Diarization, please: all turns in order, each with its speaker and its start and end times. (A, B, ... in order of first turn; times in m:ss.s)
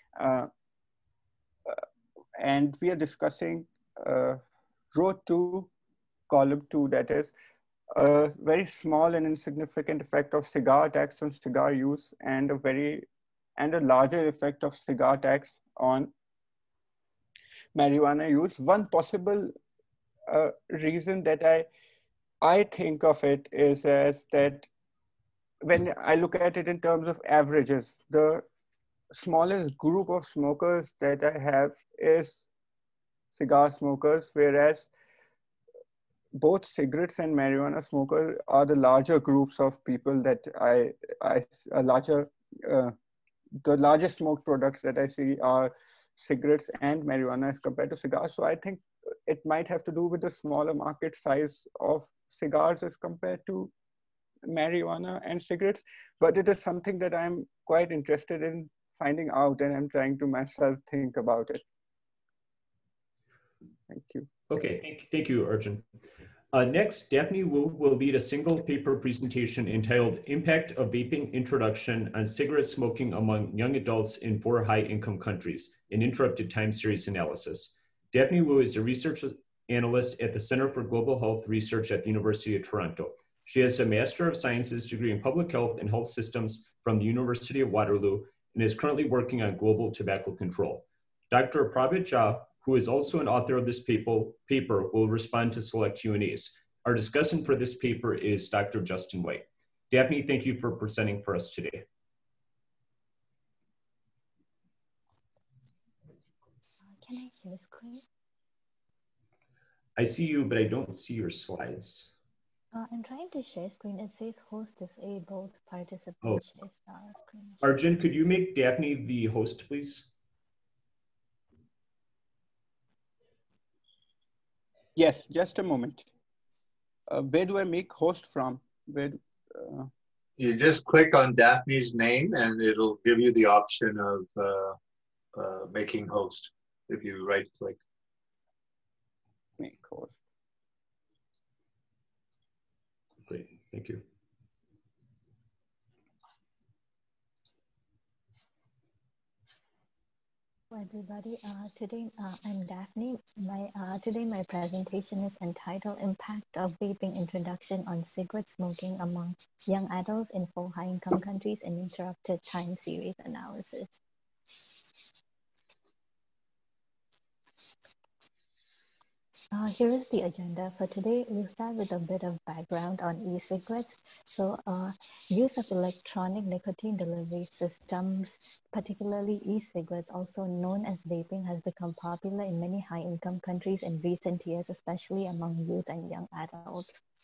0:00.2-0:00.5 A
0:02.4-0:04.4 A
0:04.9-0:05.7 A
0:06.3-0:07.3 A
0:07.9-0:13.0 A
0:13.6-0:16.1 A
0:17.7-0:19.5 A
0:20.3-0:21.7 A
0:22.4-0:24.7 A
0:25.6-0:28.4 A
0:29.1-0:32.4 A
0:33.3-0:34.9 A
0:36.4-0:42.9 A
0:43.6-0:53.7 A
0:54.5-1:01.6 A
1:03.9-1:04.3 A
1:04.5-1:05.8 B
1:06.5-1:41.8 B
1:46.9-1:48.0 C
1:50.0-1:52.1 B
1:52.7-1:57.6 C
1:57.6-2:00.1 B
2:05.0-2:06.0 A
2:07.1-2:09.9 A
2:10.4-2:14.8 D
2:15.3-2:17.8 D
2:19.6-2:20.2 A
2:23.2-2:24.0 B
2:30.7-2:44.0 C
2:49.5-3:07.0 C